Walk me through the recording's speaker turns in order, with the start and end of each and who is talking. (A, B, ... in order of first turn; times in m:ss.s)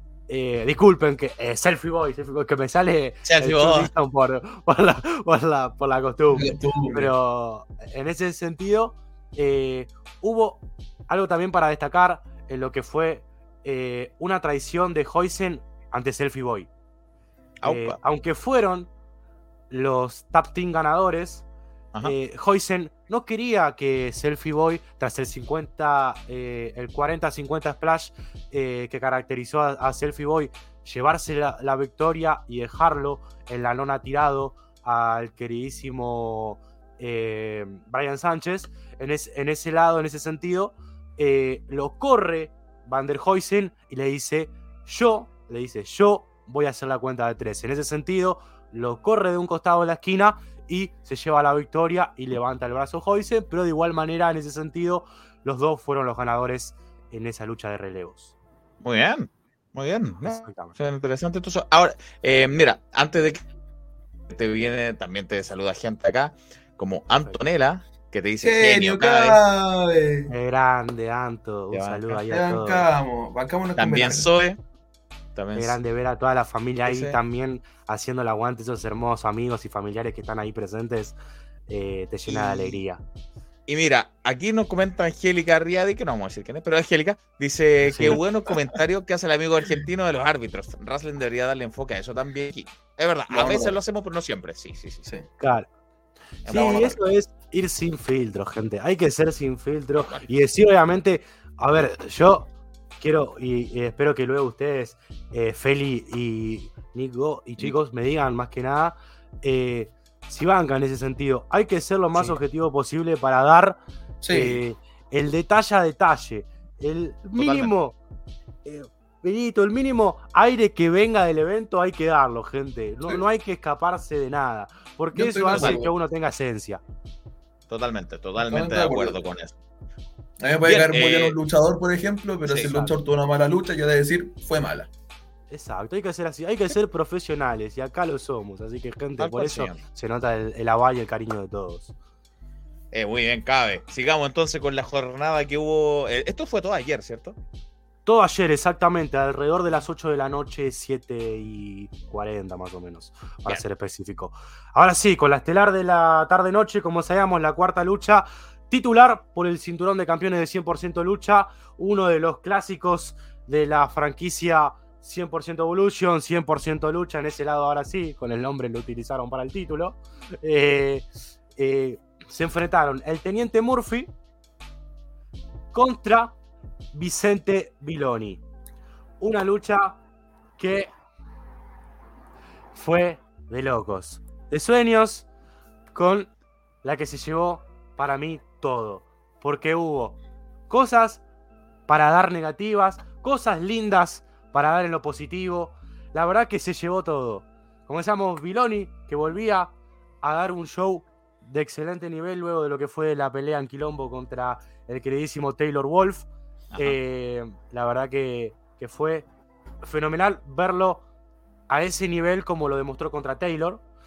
0:00.3-0:16.7 A
0:03.2-0:03.9 B
0:06.3-0:07.1 C
0:17.6-0:18.0 B
0:17.6-0:18.9 A
0:19.7-0:21.5 A
0:22.0-0:58.3 A
0:58.8-1:03.4 B
1:00.2-1:00.8 A
1:04.3-1:09.4 B
1:08.4-1:10.3 C
1:10.3-1:12.9 A
1:11.7-1:12.2 B
1:12.3-1:14.3 C
1:13.8-1:14.6 B
1:15.4-1:15.8 B
1:15.6-1:21.2 A
1:16.9-1:17.2 B
1:21.7-1:23.0 A
1:22.3-1:22.8 B
1:23.7-1:35.1 B
1:27.9-1:28.8 C
1:33.3-1:33.8 C
1:35.4-1:35.7 A
1:36.4-1:37.0 B
1:36.5-1:42.5 A
1:36.5-1:36.9 C
1:40.0-1:40.3 B
1:43.0-1:58.0 A
1:52.1-1:52.4 B
1:54.2-1:54.6 C
1:57.4-1:57.7 B
1:58.6-2:06.8 A
2:05.1-2:05.9 C
2:05.5-2:05.8 B
2:07.7-2:09.6 B
2:08.4-2:09.2 C
2:10.4-2:14.9 C
2:10.6-2:11.4 B
2:12.5-2:12.9 A
2:15.5-2:21.9 A
2:19.2-2:19.8 B
2:22.9-2:27.4 B
2:28.1-2:54.1 A
2:55.7-2:56.4 A
2:56.9-2:58.4 A
2:59.2-3:00.0 A
3:00.6-3:00.9 A
3:02.7-3:05.3 A
3:05.9-3:06.3 A
3:06.8-3:10.2 A
3:10.7-3:11.2 A
3:11.9-3:29.3 A
3:26.7-3:27.0 B
3:29.8-3:31.0 A
3:31.7-3:33.8 A